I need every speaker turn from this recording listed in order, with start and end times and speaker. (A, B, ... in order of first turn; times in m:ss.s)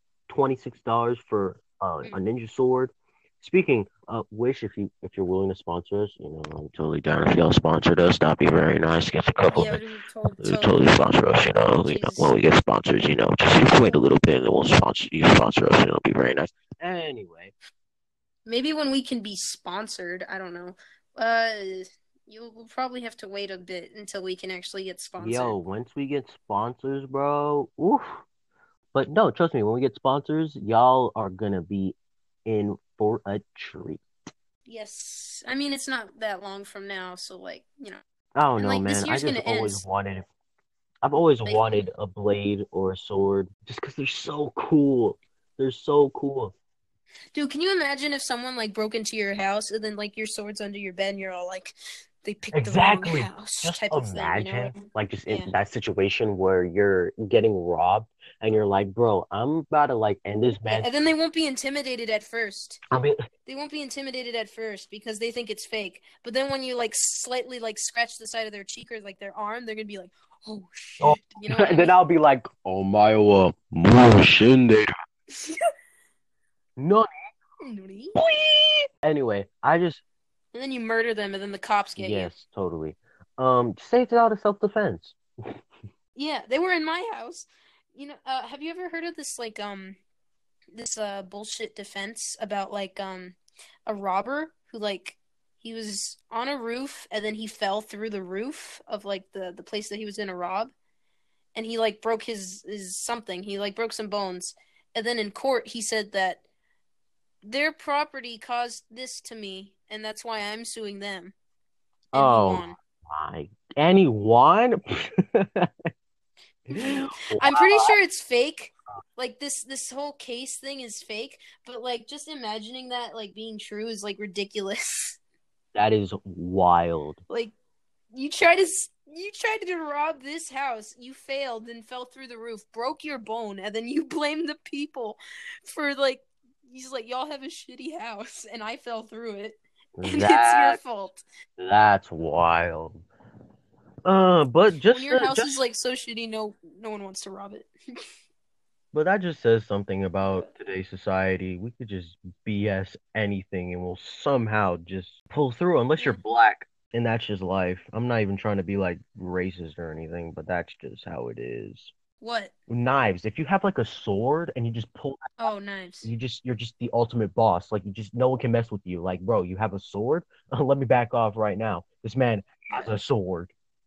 0:00.3-0:09.8 A
0:09.5-0:10.9 B
0:10.4-0:17.5 A
0:11.8-0:12.3 B
0:13.7-0:14.0 B
0:18.5-0:25.6 B
0:25.2-0:28.2 A
0:28.9-0:34.0 A
0:34.7-0:38.0 B
0:38.4-0:40.3 A
0:38.6-0:39.8 B
0:41.0-0:46.5 A
0:41.4-0:41.8 B
0:47.3-0:55.5 B
0:52.5-1:01.0 A
1:00.7-1:02.8 B
1:03.5-1:12.0 B
1:11.0-1:14.9 A
1:15.3-1:15.6 B
1:16.8-1:17.1 A
1:17.6-1:18.2 B
1:18.2-1:20.0 A
1:20.5-1:22.3 B
1:22.0-1:25.2 A
1:26.2-1:30.0 B
1:30.7-1:40.7 B
1:41.6-1:46.4 B
1:47.4-1:51.3 B
1:52.1-1:55.7 A
1:52.1-1:52.8 B
1:56.7-1:58.0 A
1:56.7-2:05.2 B
2:05.8-2:07.2 A
2:08.1-2:21.2 B
2:20.0-2:20.8 A
2:21.6-2:23.0 A
2:24.0-2:25.5 A
2:24.9-2:27.7 B
2:28.9-2:41.9 A
2:42.2-2:42.5 B
2:42.7-2:45.3 A
2:45.4-2:46.1 B
2:46.0-2:53.5 A